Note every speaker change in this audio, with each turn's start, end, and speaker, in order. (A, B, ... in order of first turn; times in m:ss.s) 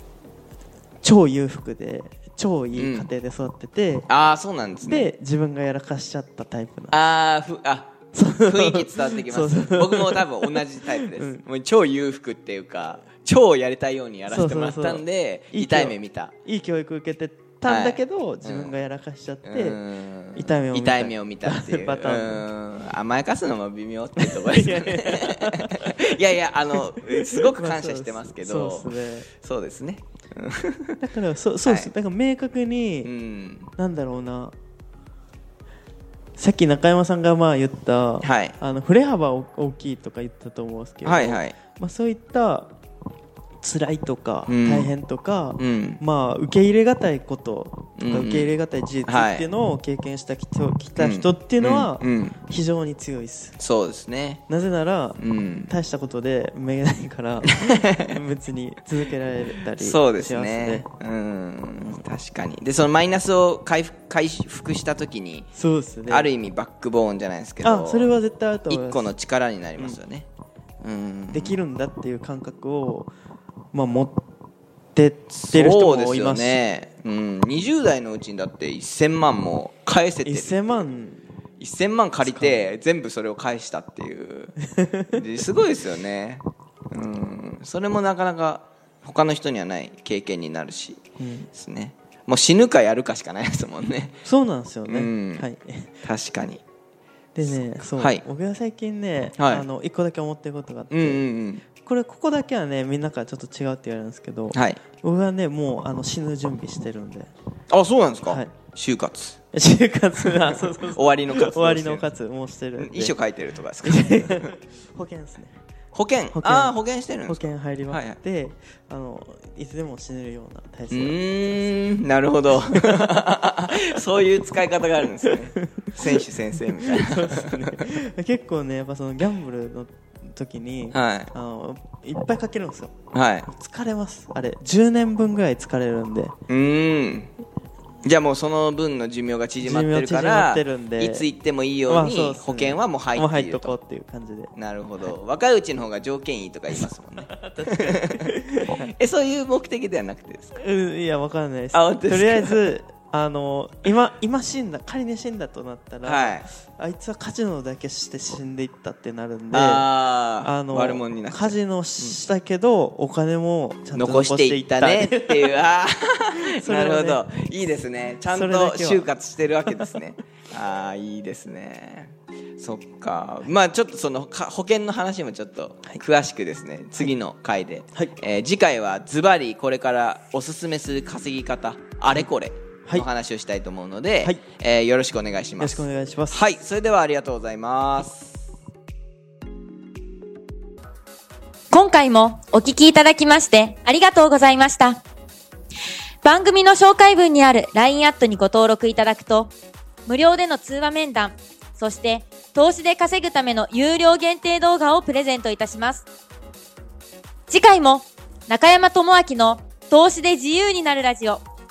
0:01.0-0:04.1 A
0:02.8-0:03.1 B
0:04.1-0:05.1 B
0:04.8-0:07.0 A
0:06.9-0:16.3 B
0:08.1-0:11.4 A
0:14.3-0:19.8 A
0:17.6-0:18.8 B
0:19.4-0:28.9 B
0:20.4-0:22.5 A
0:24.2-0:26.1 A
0:26.8-0:29.3 A
0:29.4-0:31.0 B
0:31.0-0:33.1 A
0:31.6-0:31.9 B
0:33.0-0:33.7 B
0:33.8-0:34.5 A
0:36.4-0:42.7 A
0:38.2-0:38.6 B
0:41.0-0:41.6 B
0:43.6-0:53.6 A
0:44.5-0:44.9 B
0:45.6-0:46.0 B
0:48.0-0:49.4 B
0:51.0-0:52.4 B
0:53.6-0:54.4 B
0:54.5-1:00.9 A
0:55.2-0:55.7 B
0:57.5-0:58.1 B
0:59.8-1:05.5 B
1:05.5-1:06.3 A
1:06.1-1:08.1 B
1:07.6-1:09.1 A
1:08.7-1:10.3 B
1:10.8-1:11.6 B
1:11.3-1:13.1 A
1:13.7-1:14.2 A
1:15.0-1:16.6 A
1:15.3-1:20.6 B
1:20.2-1:21.2 A
1:21.6-1:24.6 B
1:22.2-1:22.6 A
1:24.6-1:25.2 A
1:25.1-1:31.0 B
1:31.2-1:31.5 A
1:31.6-1:34.2 B
1:34.2-1:35.9 A
1:34.9-1:35.5 B
1:36.0-1:36.6 B
1:37.4-1:47.3 A
1:37.4-1:38.2 B
1:39.4-1:39.7 B
1:40.9-1:41.6 B
1:44.5-1:44.8 B
1:47.7-1:49.4 B
1:48.3-1:48.5 A
1:49.5-1:53.2 A
1:50.4-1:52.1 B
1:52.8-1:54.5 B
1:53.8-1:55.6 A
1:55.9-1:58.2 B
1:56.3-1:56.7 A
1:57.3-2:01.9 A
2:00.9-2:07.8 B
2:02.5-2:03.2 A
2:05.2-2:16.4 A
2:10.9-2:11.3 B
2:13.1-2:13.5 B
2:16.5-2:17.3 B
2:18.0-2:23.8 B
2:19.6-2:21.3 A
2:21.9-2:24.5 A
2:24.5-2:30.6 B
2:26.7-2:28.9 A
2:30.6-2:39.9 A
2:31.7-2:32.8 B
2:36.0-2:36.5 B
2:39.5-2:42.2 B
2:40.4-2:45.5 A
2:43.9-3:08.4 B
2:46.4-2:47.2 A
2:48.2-2:49.1 A
2:49.6-2:50.0 A
3:05.6-3:06.4 A
3:11.7-3:15.0 C
3:16.2-3:19.5 C
3:20.1-3:26.1 C
3:27.5-3:31.4 C